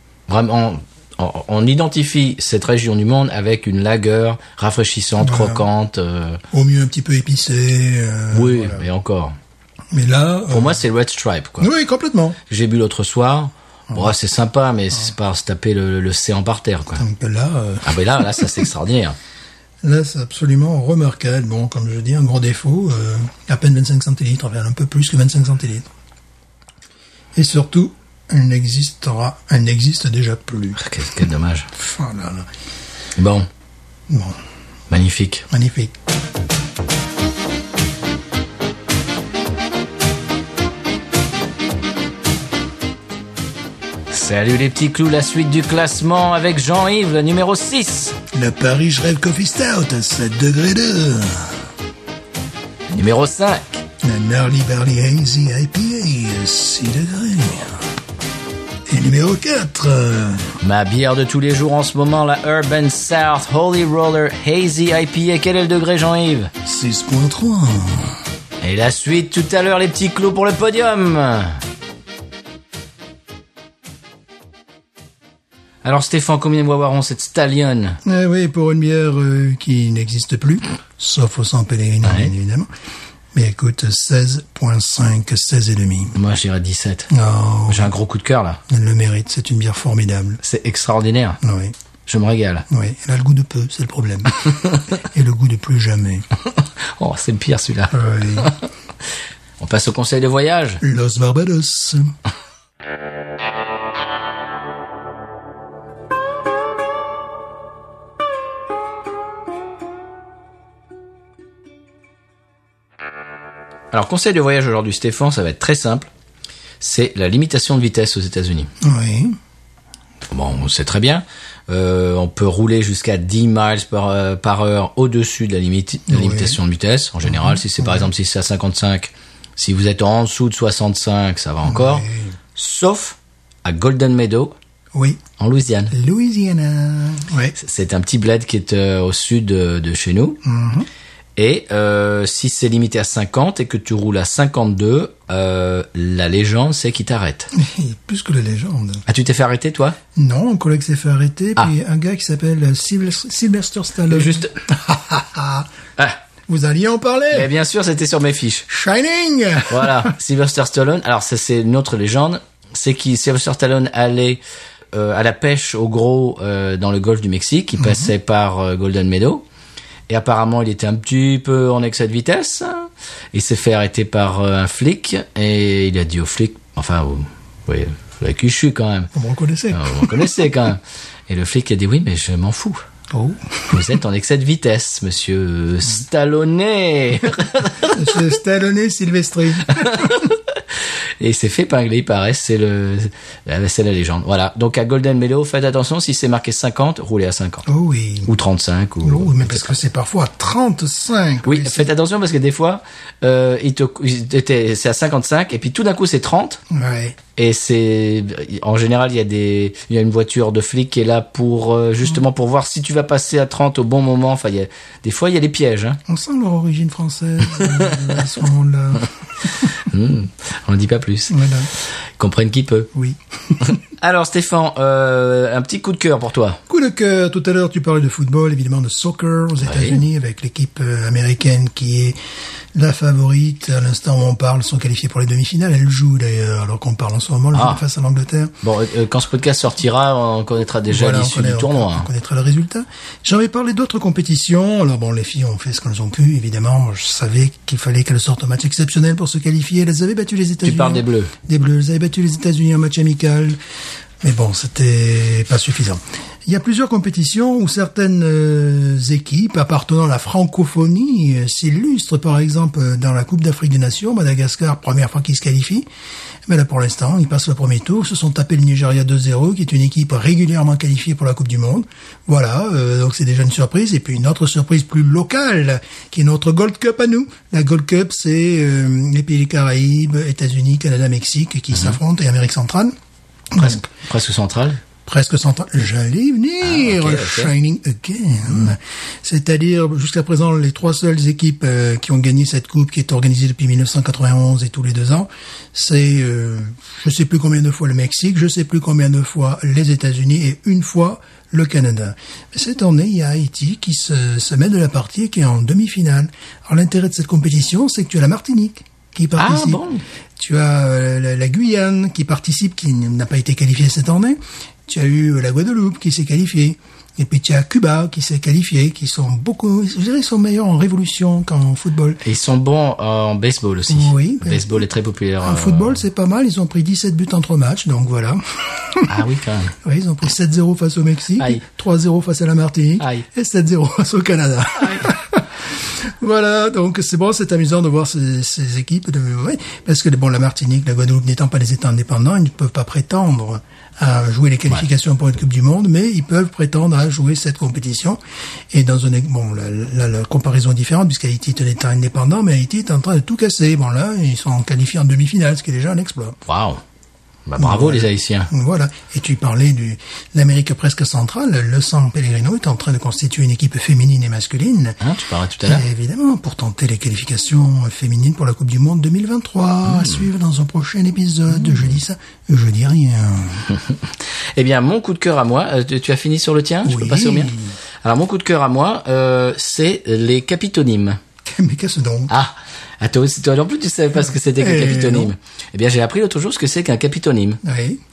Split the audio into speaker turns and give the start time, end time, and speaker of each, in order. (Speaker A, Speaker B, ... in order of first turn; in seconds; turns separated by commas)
Speaker A: 0.3-6.4, Speaker B: 5.2-5.7, Speaker B: 6.5-8.9, Speaker A: 8.3-9.3, Speaker B: 9.9-10.8, Speaker A: 10.5-11.7, Speaker B: 11.6-12.4, Speaker A: 12.5-17.0, Speaker B: 17.0-18.7, Speaker A: 17.8-19.1, Speaker B: 19.8-25.9, Speaker B: 27.4-30.8, Speaker A: 30.8-31.7, Speaker B: 31.7-32.5, Speaker A: 33.1-33.5, Speaker B: 34.1-34.4, Speaker A: 34.9-35.5, Speaker B: 35.5-35.9, Speaker A: 44.1-48.2, Speaker B: 48.3-51.6, Speaker A: 52.9-53.8, Speaker B: 54.0-57.8, Speaker B: 58.9-60.5, Speaker A: 60.6-66.5, Speaker B: 66.6-68.2, Speaker A: 68.6-71.6, Speaker A: 75.8-78.0, Speaker B: 78.0-82.7, Speaker A: 82.0-82.3, Speaker B: 83.3-86.2, Speaker A: 86.1-87.1, Speaker B: 87.1-87.9, Speaker A: 87.7-88.6, Speaker B: 88.7-90.4, Speaker A: 90.4-91.4, Speaker B: 91.4-91.7, Speaker A: 92.0-92.7, Speaker B: 92.7-96.2, Speaker A: 97.0-98.6, Speaker B: 97.9-98.5, Speaker A: 99.6-100.8, Speaker B: 100.8-102.1, Speaker A: 113.9-116.1, Speaker A: 116.8-118.7, Speaker B: 118.8-119.4, Speaker A: 120.3-134.5, Speaker B: 126.1-126.6, Speaker B: 127.2-128.1, Speaker B: 131.6-132.3, Speaker B: 134.9-135.2, Speaker A: 135.4-135.9, Speaker B: 135.9-137.6, Speaker A: 137.6-140.4, Speaker B: 140.4-140.9, Speaker A: 141.3-147.5, Speaker B: 147.5-149.0, Speaker A: 149.1-150.0, Speaker B: 150.1-155.7, Speaker A: 154.1-154.6, Speaker B: 156.5-157.5, Speaker A: 157.3-158.7, Speaker B: 158.7-160.1, Speaker A: 159.7-164.4, Speaker A: 164.9-169.4, Speaker B: 167.8-168.1, Speaker A: 170.1-179.1, Speaker B: 179.1-180.3, Speaker A: 179.7-182.8, Speaker B: 183.1-183.8, Speaker A: 183.7-188.0, Speaker B: 187.8-190.2, Speaker A: 189.8-190.5, Speaker A: 191.2-197.6, Speaker B: 197.7-198.3, Speaker A: 198.2-199.8, Speaker B: 199.0-201.9, Speaker A: 201.4-206.6, Speaker B: 206.7-207.2, Speaker A: 207.3-216.0, Speaker B: 216.1-219.7, Speaker A: 217.6-217.9, Speaker A: 219.7-221.4, Speaker B: 221.3-221.7, Speaker A: 222.2-222.9, Speaker B: 222.9-223.8, Speaker A: 223.6-226.6, Speaker B: 226.7-232.2, Speaker A: 229.6-230.0, Speaker B: 232.7-238.5, Speaker A: 237.5-237.8, Speaker A: 238.6-242.1, Speaker B: 240.9-253.6, Speaker A: 250.6-251.3, Speaker B: 254.2-265.9, Speaker B: 266.5-282.9, Speaker A: 281.7-282.0, Speaker B: 283.5-283.9, Speaker A: 283.6-284.8, Speaker B: 285.0-309.8, Speaker A: 286.6-287.5, Speaker A: 309.4-310.0, Speaker B: 310.4-322.2, Speaker A: 322.2-326.0, Speaker B: 323.9-324.8, Speaker B: 325.4-329.1, Speaker A: 329.1-329.8, Speaker B: 329.8-348.2, Speaker A: 333.0-333.2, Speaker A: 334.8-335.1, Speaker B: 348.7-356.4, Speaker A: 356.5-356.8, Speaker A: 357.4-358.5, Speaker B: 357.6-365.0, Speaker A: 365.0-365.8, Speaker B: 365.6-373.7, Speaker A: 369.9-370.2, Speaker A: 373.7-381.2, Speaker B: 376.8-377.8, Speaker B: 381.5-382.3, Speaker A: 382.3-387.6, Speaker B: 384.4-385.3, Speaker B: 387.6-388.0